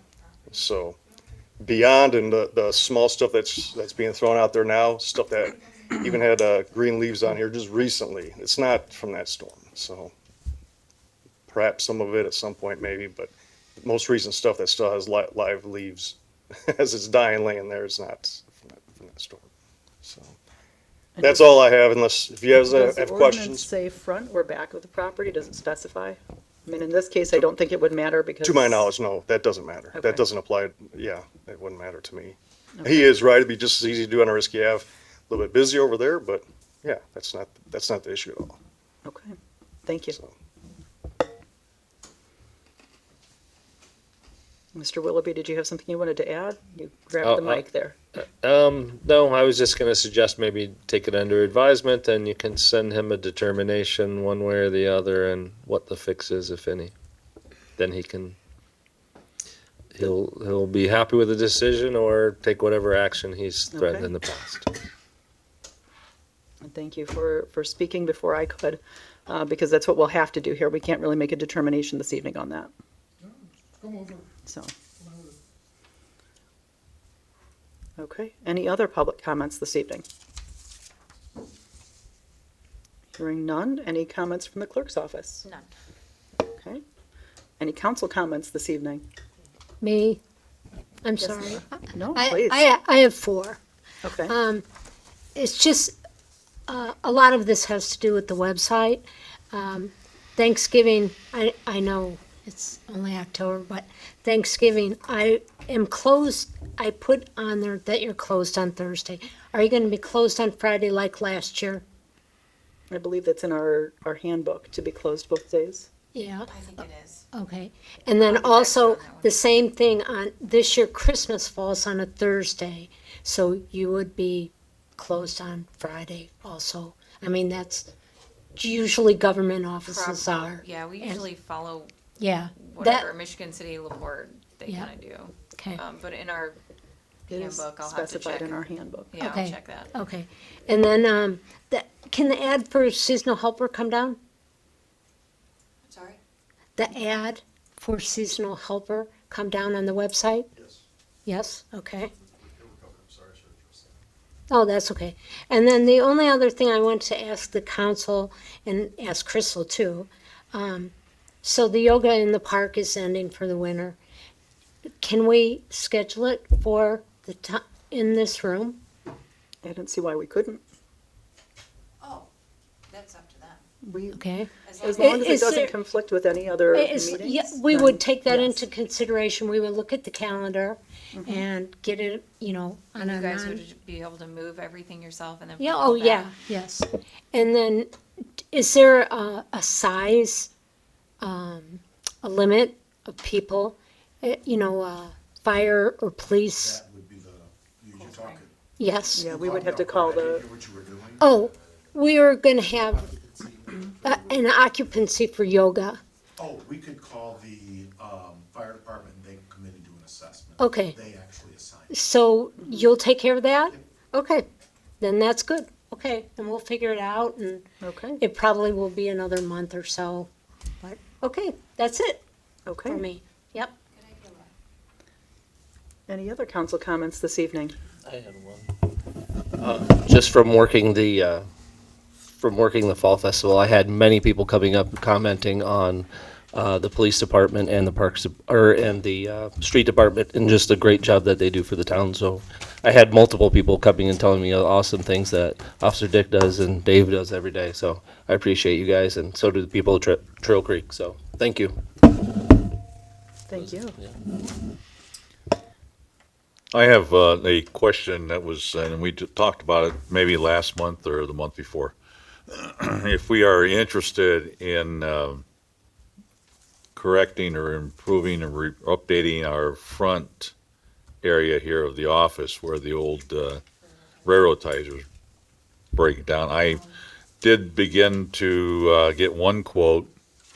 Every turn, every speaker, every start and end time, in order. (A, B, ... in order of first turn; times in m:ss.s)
0:00.5-0:01.0 A
0:01.6-0:10.1 A
0:11.5-0:19.5 A
0:20.0-0:20.4 A
0:21.2-0:21.4 B
0:21.2-0:23.7 A
0:22.6-0:28.8 B
0:28.4-0:38.6 A
0:29.9-0:30.2 B
0:32.8-0:33.1 B
0:39.0-0:39.3 B
0:39.8-0:40.2 B
0:44.7-0:48.0 B
0:47.2-0:47.6 C
0:48.2-0:56.9 C
0:57.8-0:58.4 C
0:59.9-1:04.7 C
1:03.7-1:04.1 B
1:06.6-1:12.7 B
1:14.4-1:14.7 B
1:18.0-1:20.0 B
1:23.1-1:25.4 B
1:26.5-1:26.8 B
1:27.6-1:29.0 B
1:29.8-1:30.2 D
1:31.0-1:33.6 D
1:31.2-1:32.6 B
1:34.0-1:34.4 B
1:34.3-1:34.6 D
1:35.4-1:36.0 D
1:36.7-1:51.8 D
1:52.9-1:55.9 B
1:56.1-2:07.9 D
1:56.5-1:57.3 E
1:58.2-1:59.3 E
2:08.6-2:11.3 D
2:09.8-2:11.9 E
2:12.2-2:13.1 D
2:12.6-2:16.6 E
2:15.6-2:15.8 D
2:17.3-2:19.2 B
2:17.3-2:19.9 E
2:19.2-2:24.2 D
2:25.8-2:26.2 E
2:26.8-2:30.5 D
2:30.6-2:30.8 F
2:31.2-2:32.1 D
2:32.4-2:34.0 F
2:34.5-2:40.9 D
2:41.4-2:44.0 D
2:45.0-2:48.8 D
2:49.6-2:50.6 B
2:52.9-2:53.6 E
2:53.8-2:54.2 B
2:54.1-2:55.8 D
2:54.6-2:55.1 E
2:54.8-2:58.7 B
2:56.7-3:03.6 D
3:01.1-3:01.4 B
3:03.0-3:06.3 E
3:05.6-3:07.9 D
3:08.5-3:10.5 D
3:11.2-3:16.8 D
3:16.5-3:18.5 F
3:18.8-3:19.3 D
3:19.1-3:21.7 F
3:19.2-3:20.5 B
3:21.2-3:23.1 D
3:22.8-3:24.4 F
3:24.0-3:26.0 D
3:26.4-3:31.9 F
3:30.6-3:31.0 D
3:31.9-3:34.4 D
3:35.0-3:37.7 D
3:37.8-3:38.2 B
3:38.2-3:40.3 D
3:40.8-3:42.2 D
3:42.7-3:43.0 B
3:42.8-3:43.7 D
3:46.1-3:47.8 B
3:48.1-3:48.6 G
3:49.6-3:51.5 G
3:52.4-4:11.8 G
4:13.5-4:14.0 B
4:16.7-4:21.9 H
4:22.5-4:25.4 H
4:27.0-4:30.5 H
4:31.2-4:33.6 H
4:34.2-4:35.0 H
4:35.9-4:36.8 H
4:37.4-4:40.1 H